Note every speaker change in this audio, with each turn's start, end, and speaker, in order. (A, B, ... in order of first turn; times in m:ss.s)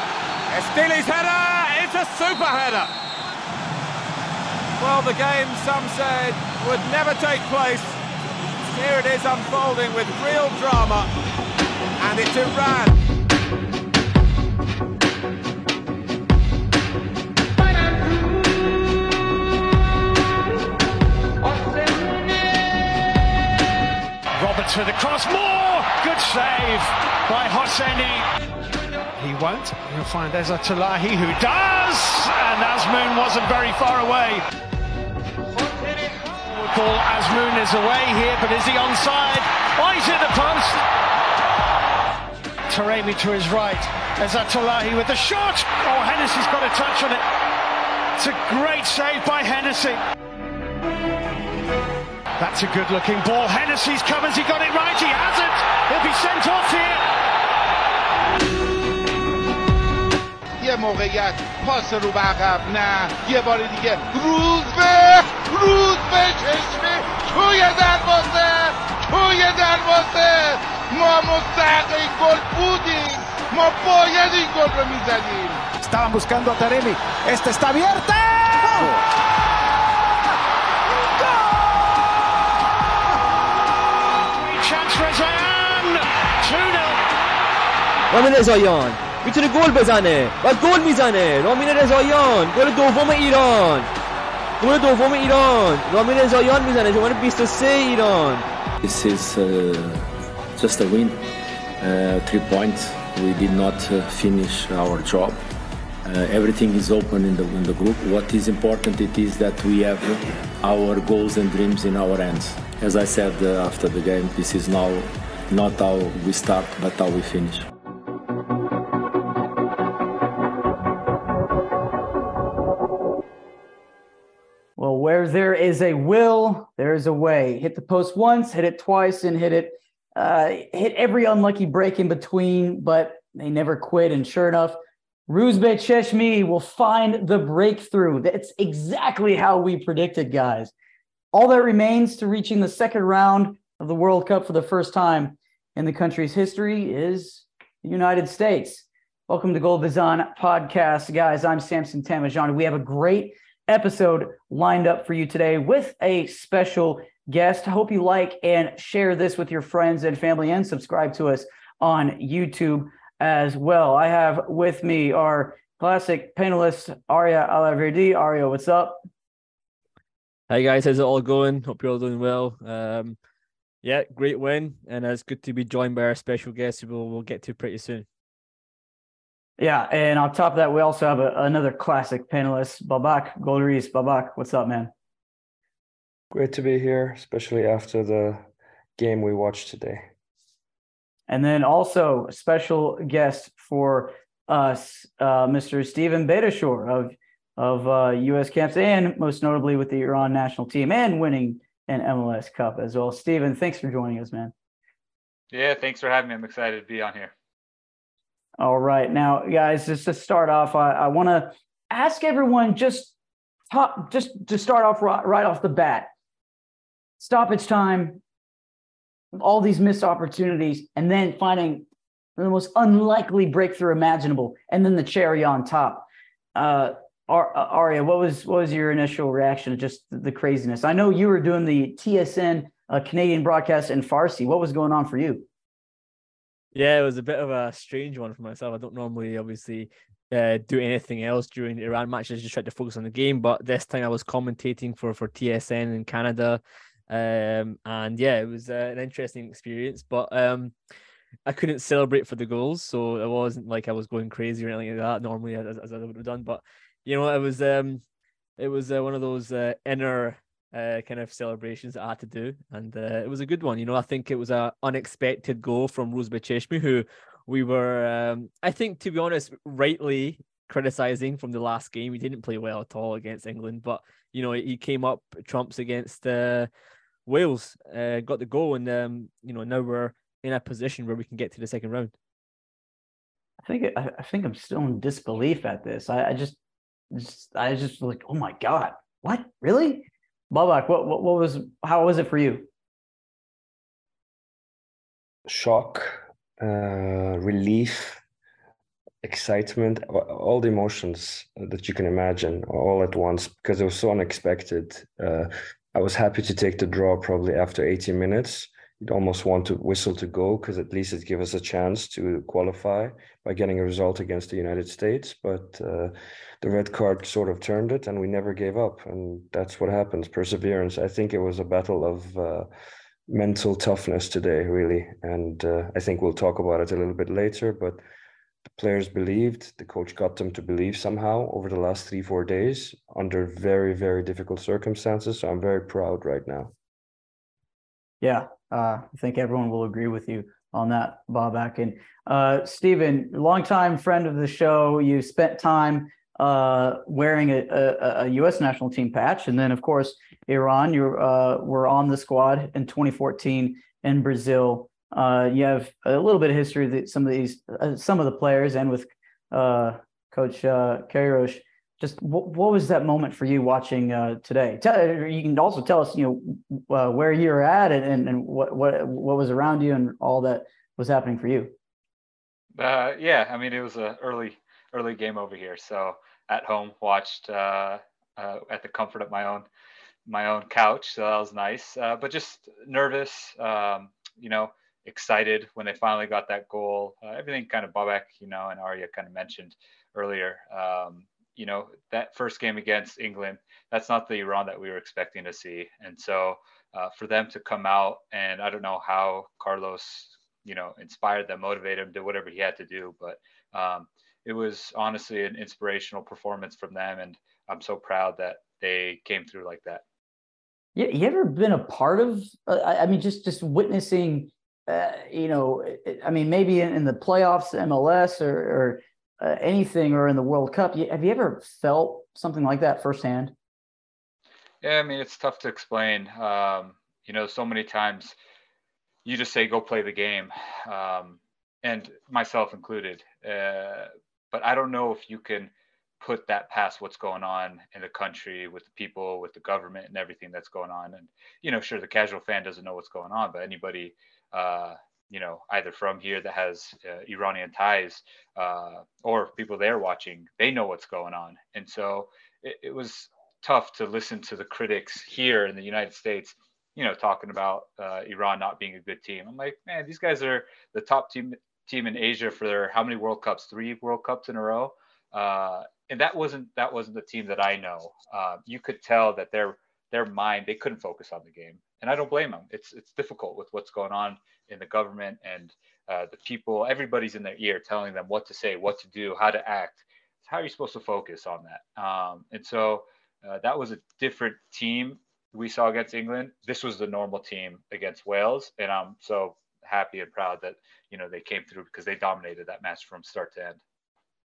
0:00.5-0:02.9 A
0:04.8-0:08.0 A
0:08.6-0:11.1 A
0:12.0-0:13.0 A
0:24.3-0:28.2 B
0:29.1-0:34.4 B
0:36.0-0:40.8 B
0:42.7-0:47.2 B
0:48.2-0:50.0 B
0:52.4-0:57.1 B
1:00.6-1:15.6 C
1:15.8-1:18.7 D
1:24.2-1:27.1 B
1:28.1-1:33.9 E
1:34.6-1:38.4 E
1:38.8-1:41.2 F
1:41.8-1:45.4 F
1:46.0-1:57.7 F
2:04.8-2:20.7 G
2:21.3-2:49.0 G
2:50.5-2:53.2 E
2:53.8-2:58.0 E
2:59.6-3:04.9 G
3:06.3-3:10.1 H
3:11.3-3:24.5 G
3:25.5-3:27.3 I
3:28.6-3:33.1 G
3:33.7-3:36.1 G
3:37.2-3:38.2 G
3:39.3-3:55.4 G
3:56.7-4:10.7 E
4:11.4-4:18.0 E
4:18.6-4:36.7 E
4:37.3-4:42.1 E
4:43.6-4:46.6 G
4:47.1-4:52.7 G
4:55.5-4:58.2 H
4:59.2-5:22.7 H
5:23.3-5:28.0 H
5:28.7-5:36.7 H
5:38.2-6:11.7 G
6:12.7-6:19.7 I
6:20.3-6:50.0 I
6:51.0-7:03.5 G
7:04.8-7:08.4 I
7:09.2-8:13.8 I